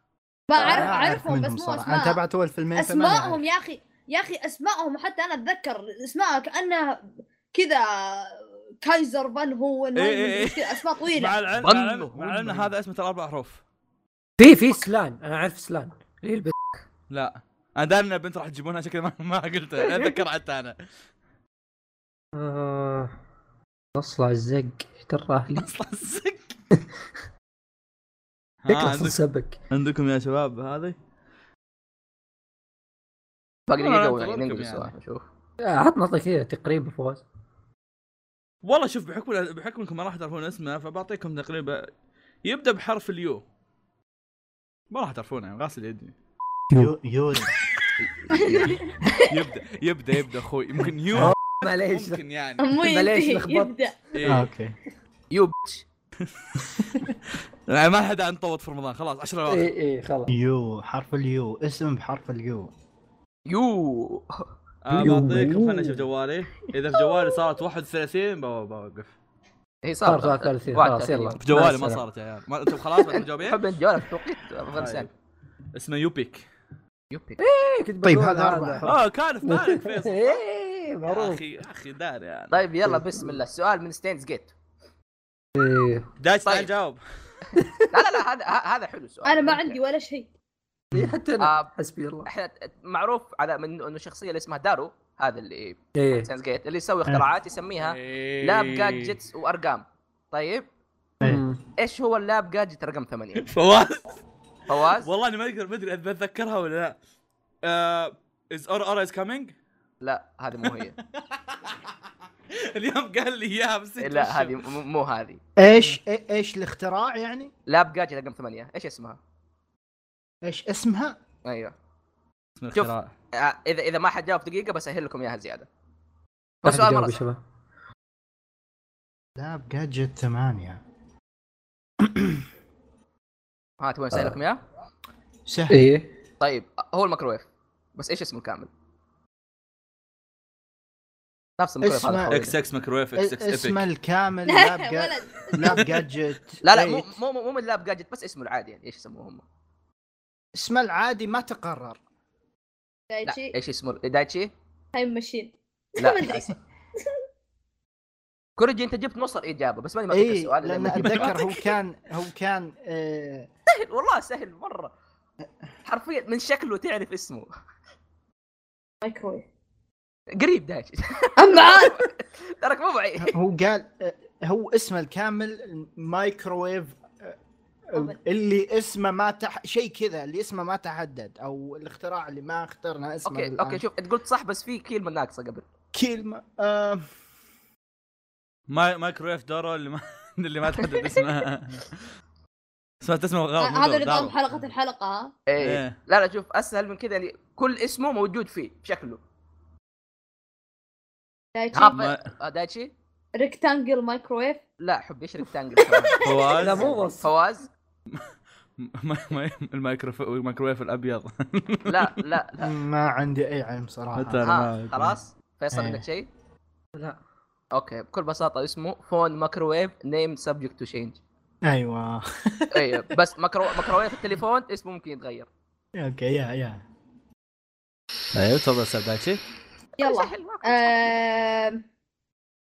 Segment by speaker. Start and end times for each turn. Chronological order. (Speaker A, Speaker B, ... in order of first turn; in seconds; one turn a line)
Speaker A: 0.5-2.2
Speaker B: 0.6-3.4
Speaker A: 2.8-11.4
Speaker C: 9.9-13.6
Speaker D: 11.6-12.7
Speaker E: 14.4-16.6
Speaker C: 17.1-20.8
Speaker E: 22.4-23.1
Speaker E: 23.9-25.7
Speaker C: 25.6-26.5
Speaker C: 28.6-31.0
Speaker E: 28.7-29.6
Speaker D: 33.7-35.2
Speaker C: 33.8-34.9
Speaker E: 35.6-37.2
Speaker C: 38.6-41.9
Speaker C: 42.4-43.4
Speaker C: 44.9-46.1
Speaker B: 46.7-47.5
Speaker D: 48.3-48.8
Speaker A: 48.4-49.1
Speaker C: 49.3-52.7
Speaker E: 51.2-53.8
Speaker A: 52.6-54.0
Speaker C: 54.1-54.5
Speaker B: 54.3-54.7
Speaker D: 55.3-55.9
Speaker C: 56.2-56.6
Speaker C: 57.7-59.7
Speaker E: 59.5-60.3
Speaker B: 60.3-62.7
Speaker D: 63.5-64.5
Speaker C: 64.8-69.2
Speaker E: 65.0-66.0
Speaker D: 69.8-71.4
Speaker E: 70.0-72.0
Speaker C: 71.4-73.6
Speaker D: 73.1-75.1
Speaker C: 74.7-75.1
Speaker C: 75.7-76.5
Speaker D: 77.1-77.4
Speaker E: 77.4-81.4
Speaker B: 78.0-78.9
Speaker C: 78.8-80.4
Speaker C: 81.1-82.6
Speaker D: 82.5-84.5
Speaker E: 82.9-83.4
Speaker E: 85.5-86.1
Speaker C: 86.2-87.0
Speaker E: 87.6-87.9
Speaker D: 87.9-89.8
Speaker A: 89.2-90.3
Speaker B: 90.9-91.2
Speaker E: 90.9-92.3
Speaker D: 91.4-91.7
Speaker D: 92.2-100.7
Speaker E: 96.0-96.3
Speaker C: 97.8-99.1
Speaker E: 101.2-101.6
Speaker D: 101.8-103.5
Speaker C: 103.4-104.2
Speaker D: 104.7-105.1
Speaker C: 104.7-107.0
Speaker C: 107.6-109.5
Speaker D: 110.0-111.0
Speaker C: 110.6-111.9
Speaker C: 112.5-114.7
Speaker D: 114.0-115.4
Speaker B: 115.6-117.5
Speaker D: 117.7-119.2
Speaker B: 120.4-121.2
Speaker D: 121.5-121.7
Speaker C: 122.6-123.1
Speaker D: 122.7-125.7
Speaker D: 126.6-127.2
Speaker E: 126.7-127.4
Speaker B: 129.4-130.8
Speaker B: 132.0-132.4
Speaker D: 133.8-134.6
Speaker B: 135.5-135.8
Speaker E: 135.7-136.1
Speaker D: 136.4-138.7
Speaker D: 141.6-142.6
Speaker B: 141.8-142.4
Speaker C: 142.3-143.8
Speaker B: 143.2-147.1
Speaker A: 144.5-145.9
Speaker D: 146.6-149.4
Speaker B: 150.6-152.0
Speaker A: 153.1-153.5
Speaker D: 153.3-154.5
Speaker A: 154.9-156.6
Speaker D: 156.0-156.6
Speaker D: 158.6-161.7
Speaker B: 160.1-163.5
Speaker D: 163.7-164.9
Speaker D: 165.8-167.5
Speaker A: 169.0-169.4
Speaker D: 170.4-173.4
Speaker A: 171.4-172.1
Speaker B: 173.2-177.4
Speaker B: 177.9-183.8
Speaker D: 183.3-185.6
Speaker B: 185.9-187.1
Speaker C: 188.7-192.0
Speaker C: 193.0-194.4
Speaker A: 193.6-195.3
Speaker D: 195.5-199.2
Speaker C: 195.6-196.0
Speaker A: 201.6-202.0
Speaker D: 201.7-202.9
Speaker C: 201.9-202.3
Speaker A: 203.4-204.6
Speaker D: 204.8-207.7
Speaker C: 206.2-207.0
Speaker A: 206.2-206.6
Speaker E: 206.6-207.3
Speaker C: 208.1-212.1
Speaker D: 211.9-212.7
Speaker B: 212.6-214.5
Speaker C: 214.2-215.1
Speaker D: 214.4-216.3
Speaker B: 215.7-216.0
Speaker D: 217.7-221.2
Speaker B: 221.7-223.2
Speaker D: 222.7-225.5
Speaker B: 225.9-226.8
Speaker C: 228.3-229.4
Speaker D: 230.0-231.2
Speaker A: 230.0-231.8